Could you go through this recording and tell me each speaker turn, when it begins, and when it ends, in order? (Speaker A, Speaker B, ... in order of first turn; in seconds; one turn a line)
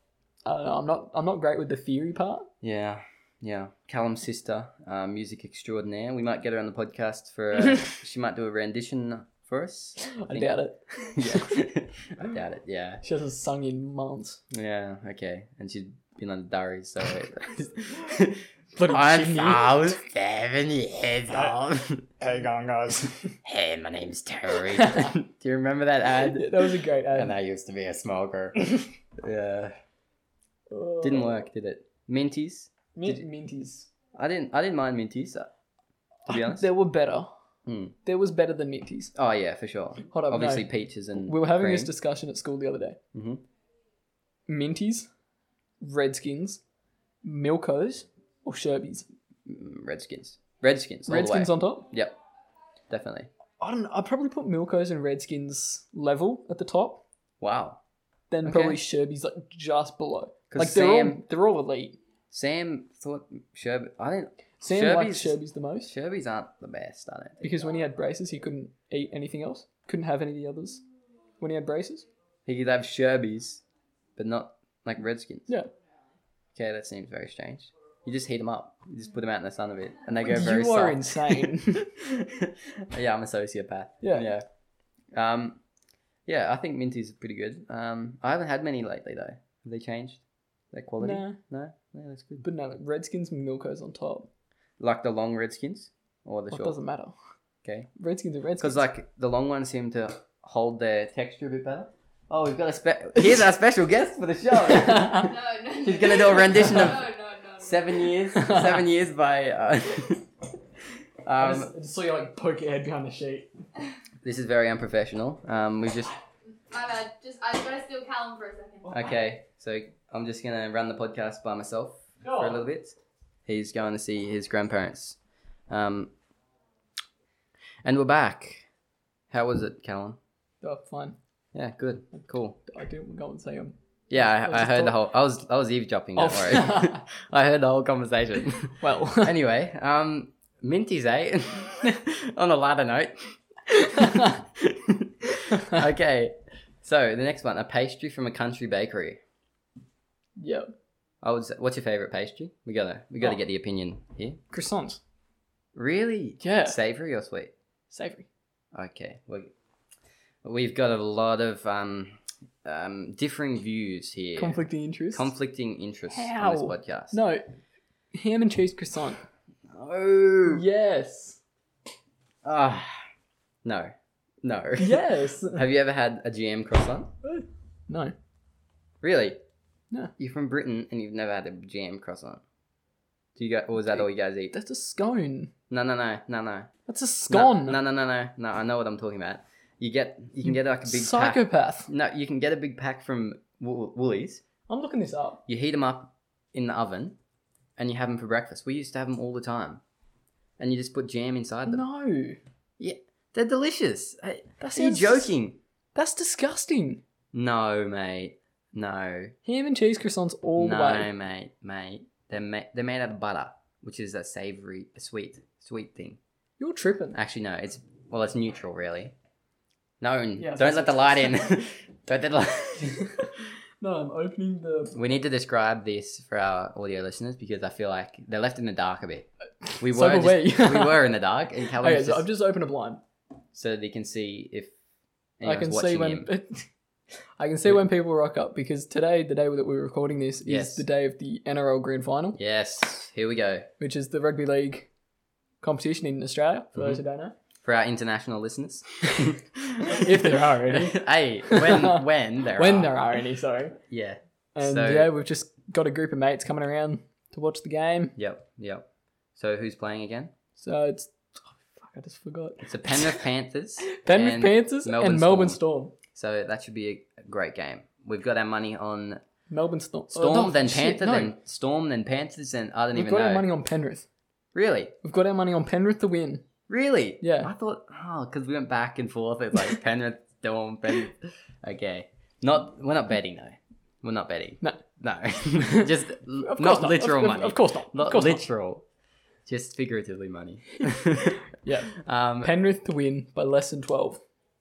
Speaker A: 0.5-2.5
Speaker B: 2.6-13.0
Speaker A: 10.2-11.6
Speaker A: 13.0-14.4
Speaker B: 14.5-29.7
Speaker A: 18.8-19.8
Speaker A: 24.6-25.1
Speaker A: 26.1-27.4
Speaker A: 30.7-31.5
Speaker B: 31.0-33.2
Speaker A: 32.9-33.9
Speaker B: 34.1-35.5
Speaker B: 36.3-36.7
Speaker A: 36.3-37.3
Speaker B: 37.7-38.0
Speaker A: 38.0-39.1
Speaker B: 39.1-41.9
Speaker A: 40.1-43.0
Speaker B: 43.1-43.4
Speaker A: 44.5-45.1
Speaker A: 45.8-46.6
Speaker A: 47.2-49.1
Speaker B: 49.5-52.1
Speaker A: 51.1-51.9
Speaker B: 52.9-53.3
Speaker A: 53.6-57.0
Speaker B: 57.4-57.8
Speaker A: 58.3-62.0
Speaker B: 58.5-58.8
Speaker B: 60.5-61.2
Speaker B: 62.3-67.5
Speaker A: 64.6-65.9
Speaker A: 67.4-70.8
Speaker A: 71.4-72.1
Speaker B: 72.5-73.6
Speaker B: 74.2-75.5
Speaker B: 76.5-84.5
Speaker A: 80.2-81.9
Speaker A: 84.0-84.3
Speaker B: 85.1-85.6
Speaker B: 86.3-92.5
Speaker A: 91.0-91.4
Speaker A: 92.4-94.3
Speaker B: 94.8-96.8
Speaker A: 96.5-97.2
Speaker B: 97.6-97.9
Speaker A: 98.0-98.8
Speaker B: 98.6-107.1
Speaker A: 104.6-105.3
Speaker C: 105.1-108.1
Speaker B: 107.6-110.3
Speaker A: 108.3-108.8
Speaker B: 111.2-111.7
Speaker A: 111.4-113.5
Speaker B: 114.2-116.1
Speaker C: 116.7-119.2
Speaker B: 118.9-123.0
Speaker A: 122.2-122.7
Speaker B: 123.5-125.2
Speaker B: 125.7-126.1
Speaker B: 127.8-128.7
Speaker B: 129.3-130.2
Speaker A: 130.6-131.2
Speaker B: 131.5-132.6
Speaker A: 132.7-135.0
Speaker B: 134.1-149.2
Speaker A: 136.2-137.0
Speaker A: 138.8-139.4
Speaker A: 143.8-144.4
Speaker A: 150.4-150.7
Speaker B: 151.2-154.4
Speaker A: 154.5-155.0
Speaker B: 155.8-157.5
Speaker A: 156.4-156.8
Speaker A: 157.9-158.3
Speaker B: 158.7-159.5
Speaker B: 160.4-164.6
Speaker A: 164.4-165.3
Speaker B: 165.1-167.2
Speaker A: 166.1-167.5
Speaker A: 168.1-169.2
Speaker B: 169.7-170.6
Speaker A: 170.5-171.4
Speaker B: 172.4-173.0
Speaker B: 173.7-173.9
Speaker B: 174.4-177.1
Speaker A: 174.8-175.6
Speaker A: 177.2-178.1
Speaker B: 179.0-179.4
Speaker B: 180.2-182.4
Speaker B: 183.4-184.6
Speaker A: 183.8-185.5
Speaker B: 185.7-186.7
Speaker A: 186.9-187.8
Speaker B: 187.2-194.4
Speaker A: 190.8-191.9
Speaker A: 194.7-195.4
Speaker B: 195.5-197.2
Speaker B: 197.8-199.8
Speaker B: 200.6-201.8
Speaker A: 201.7-202.4
Speaker B: 202.8-205.6
Speaker A: 204.6-205.3
Speaker A: 205.9-207.0
Speaker B: 207.3-209.3
Speaker A: 209.4-211.1
Speaker B: 210.6-216.2
Speaker A: 216.6-217.2
Speaker B: 217.1-219.2
Speaker B: 220.0-223.1
Speaker A: 220.4-221.5
Speaker A: 223.0-225.0
Speaker B: 224.9-232.3
Speaker A: 229.7-231.1
Speaker A: 231.7-233.0
Speaker B: 233.5-234.7
Speaker B: 235.4-236.3
Speaker A: 235.4-236.7
Speaker A: 237.4-242.4
Speaker B: 240.5-240.8
Speaker B: 242.4-243.7
Speaker A: 243.8-244.9
Speaker A: 245.6-247.3
Speaker B: 246.8-247.0
Speaker B: 247.6-253.1
Speaker A: 249.8-253.8
Speaker B: 253.9-255.1
Speaker A: 254.6-258.1
Speaker B: 258.2-260.3
Speaker A: 260.6-263.2
Speaker B: 262.6-265.6
Speaker A: 263.9-266.0
Speaker B: 266.1-269.2
Speaker A: 269.5-271.4
Speaker B: 270.1-273.5
Speaker A: 272.9-274.1
Speaker B: 274.6-274.9
Speaker A: 275.0-276.5
Speaker B: 276.7-288.8
Speaker A: 277.2-277.5
Speaker A: 285.7-288.4
Speaker B: 289.5-292.5
Speaker A: 291.6-294.2